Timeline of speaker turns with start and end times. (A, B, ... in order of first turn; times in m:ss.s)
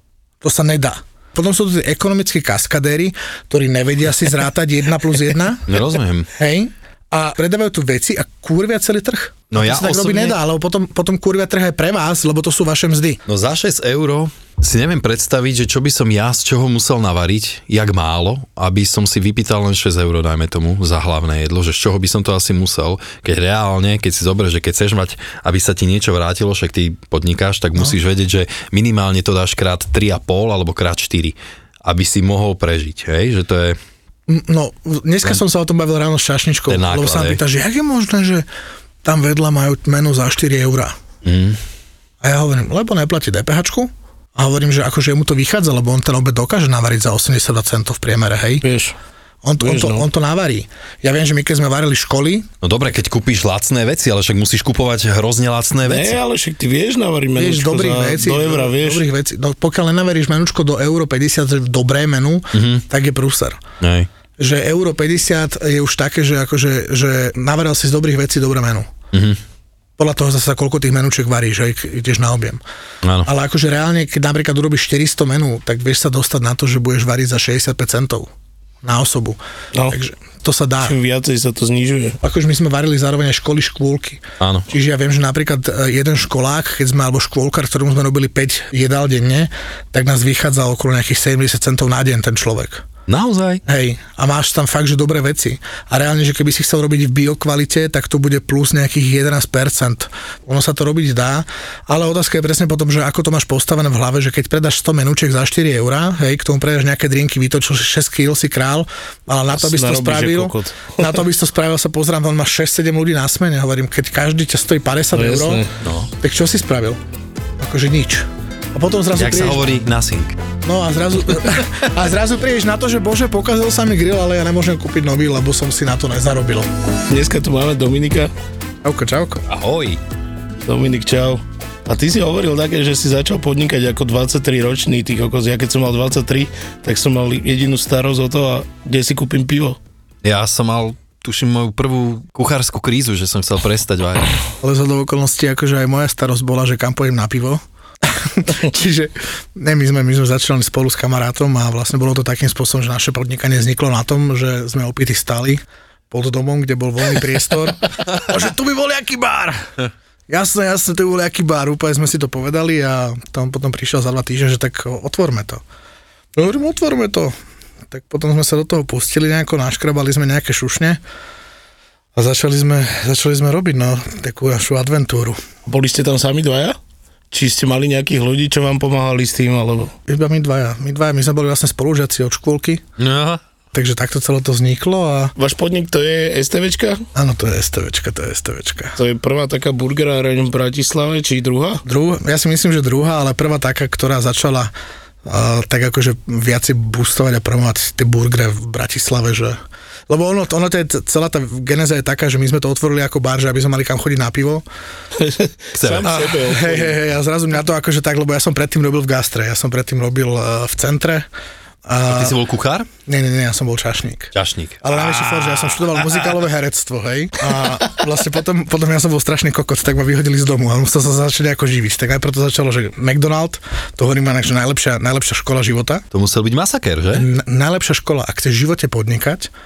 0:00.4-0:05.8 A
0:05.7-0:06.3 B
0:06.3-0:13.2 A
0:09.5-0:10.4 B
0:13.3-0:33.8 B
0:34.3-0:38.5 A
0:36.7-0:37.4 B
0:39.0-0:41.0 A
0:41.2-0:41.6 B
0:42.2-0:48.6 A
0:48.6-0:49.0 C
0:49.4-0:52.5 A
0:49.6-0:50.1 C
0:52.6-0:56.2 B
0:55.8-0:59.0 C
0:57.4-1:03.6 A
1:02.5-1:02.8 B
1:03.8-1:04.1 B
1:04.4-1:08.9 A
1:09.1-1:09.4 B
1:10.0-1:12.6 A
1:13.0-1:13.3 B
1:13.2-1:18.3 A
1:18.8-1:20.9 A
1:20.8-1:22.2 C
1:22.2-1:32.8 A
1:24.4-1:24.7 B
1:33.1-1:33.6 B
1:33.6-1:55.6 A
1:49.6-1:51.2 C
1:55.1-1:55.8 C
1:55.8-1:56.1 B
1:56.2-1:57.0 A
1:57.6-1:59.6 A
1:59.2-2:00.4 B
2:00.6-2:06.7 A
2:07.1-2:08.3 C
2:08.8-2:09.4 A
2:09.5-2:10.0 B
2:10.6-2:19.8 C
2:20.2-2:24.3 B
2:24.6-2:39.7 A
2:40.3-2:45.6 A
2:46.4-2:47.3 A
2:47.9-2:51.0 A
2:52.2-2:55.4 A
2:55.6-2:56.8 C
2:57.3-2:59.9 C
3:00.1-3:02.8 A
3:03.0-3:03.4 B
3:03.7-3:05.3 A
3:05.4-3:07.0 C
3:07.1-3:09.0 A
3:09.0-3:11.8 C
3:11.8-3:14.7 A
3:15.2-3:24.6 A
3:25.2-3:27.0 C
3:25.8-3:26.1 B
3:26.0-3:31.3 A
3:31.8-3:32.4 A
3:32.0-3:32.9 B
3:33.0-3:46.0 A
3:34.3-3:36.1 B
3:46.1-3:47.3 B
3:47.1-3:49.5 A